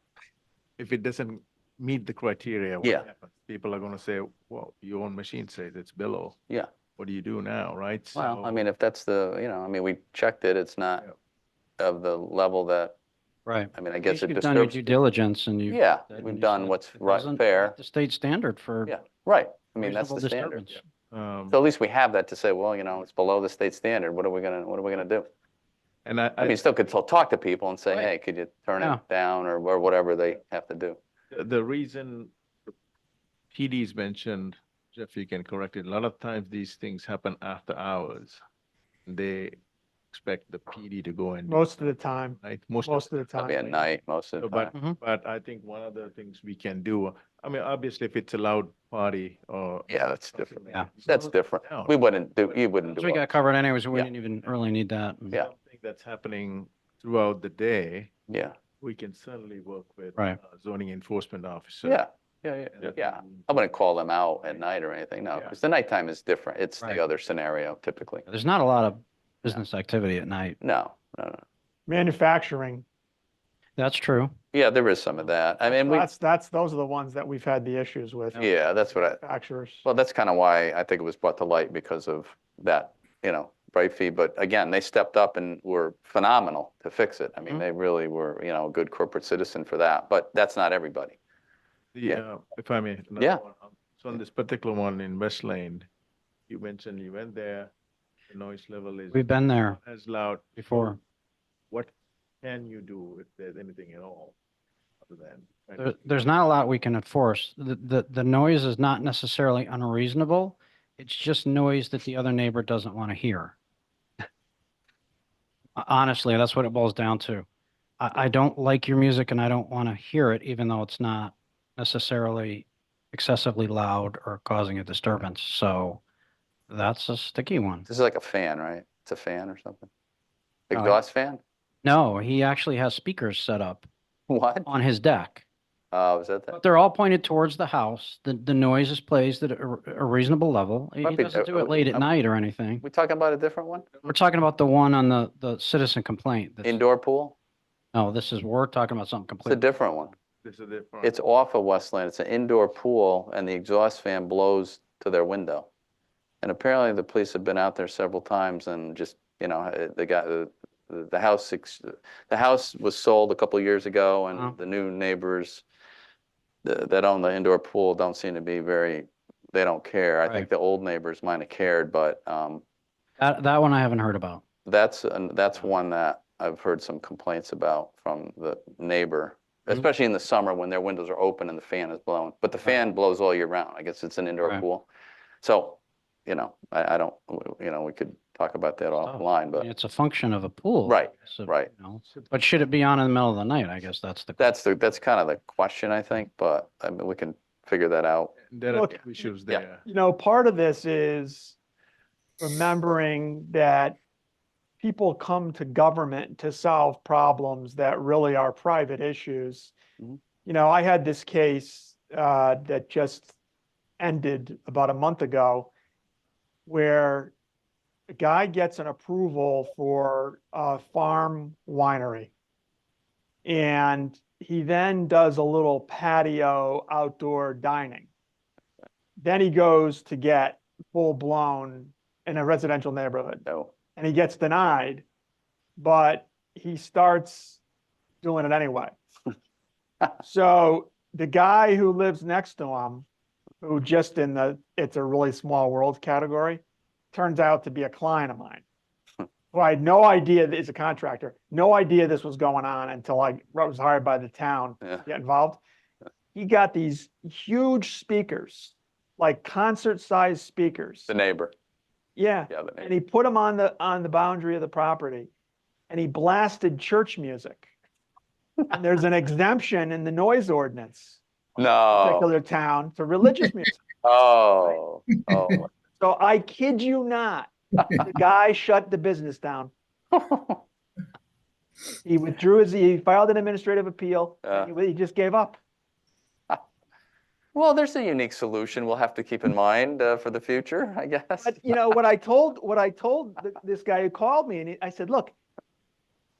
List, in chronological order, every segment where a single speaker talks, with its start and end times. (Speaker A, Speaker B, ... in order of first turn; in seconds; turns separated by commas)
Speaker A: 0.8-6.4, Speaker A: 7.0-8.6, Speaker B: 8.1-11.0, Speaker B: 11.8-12.9, Speaker C: 13.4-18.9, Speaker B: 13.7-14.9, Speaker B: 15.7-17.8, Speaker B: 18.9-20.6, Speaker C: 19.8-20.8, Speaker A: 20.7-21.6, Speaker B: 21.5-25.3, Speaker A: 26.0-26.6, Speaker B: 26.4-31.0, Speaker A: 31.3-32.3, Speaker A: 33.5-38.4, Speaker A: 39.0-39.6, Speaker A: 40.1-41.8, Speaker D: 41.5-43.8, Speaker A: 42.4-43.1, Speaker B: 43.4-44.7, Speaker A: 44.4-51.9, Speaker B: 49.9-53.3, Speaker C: 53.0-55.4, Speaker A: 55.3-58.1, Speaker B: 58.3-58.5, Speaker A: 58.8-62.0, Speaker B: 61.8-68.2, Speaker A: 62.7-63.5, Speaker C: 68.3-70.5, Speaker B: 70.6-71.4, Speaker D: 71.9-72.8, Speaker C: 73.8-74.3, Speaker B: 74.5-76.1, Speaker D: 75.7-78.4, Speaker B: 78.3-79.2, Speaker D: 79.0-79.8, Speaker B: 79.8-91.2, Speaker A: 91.9-95.9, Speaker A: 96.5-97.7, Speaker A: 98.3-101.0, Speaker C: 99.1-99.8, Speaker C: 100.6-101.0, Speaker A: 101.7-104.3, Speaker A: 105.0-105.9, Speaker C: 105.8-113.5, Speaker C: 115.8-117.5, Speaker C: 118.0-126.0, Speaker C: 126.7-127.8, Speaker B: 127.8-129.9, Speaker B: 130.7-131.4, Speaker C: 130.7-131.0, Speaker C: 131.8-133.9, Speaker B: 134.3-134.7, Speaker C: 134.6-135.4, Speaker B: 135.9-136.6, Speaker C: 136.5-142.8, Speaker B: 141.0-142.1, Speaker B: 142.8-143.9, Speaker C: 144.1-146.8, Speaker B: 146.6-147.3, Speaker C: 147.9-149.6, Speaker B: 149.4-150.1, Speaker A: 150.4-151.2, Speaker B: 151.0-155.7, Speaker B: 156.4-165.6, Speaker B: 166.6-172.6, Speaker C: 173.2-174.4, Speaker B: 174.6-184.9, Speaker B: 185.4-189.7, Speaker C: 189.0-194.5, Speaker B: 190.8-191.7, Speaker B: 194.4-198.4, Speaker A: 198.5-199.8, Speaker D: 198.7-199.0, Speaker D: 199.8-201.6, Speaker D: 202.4-204.0, Speaker D: 204.8-209.7, Speaker D: 210.4-213.3, Speaker D: 214.0-215.7, Speaker D: 216.7-217.3, Speaker D: 218.1-222.3, Speaker D: 223.4-228.1, Speaker D: 229.2-233.4, Speaker B: 233.4-233.7, Speaker D: 233.9-235.0, Speaker D: 235.8-237.6, Speaker D: 238.2-238.9, Speaker D: 240.2-243.1, Speaker D: 243.6-248.6, Speaker D: 249.5-255.6, Speaker D: 256.3-261.1, Speaker B: 261.1-261.5, Speaker D: 262.1-265.3, Speaker B: 262.5-262.9, Speaker D: 265.9-267.7, Speaker D: 268.7-271.2, Speaker B: 271.6-272.3, Speaker D: 271.8-273.8, Speaker B: 274.0-275.7, Speaker D: 276.0-279.7, Speaker B: 280.1-280.6, Speaker D: 282.0-285.6, Speaker B: 284.4-284.7, Speaker B: 287.5-291.7, Speaker D: 291.4-295.3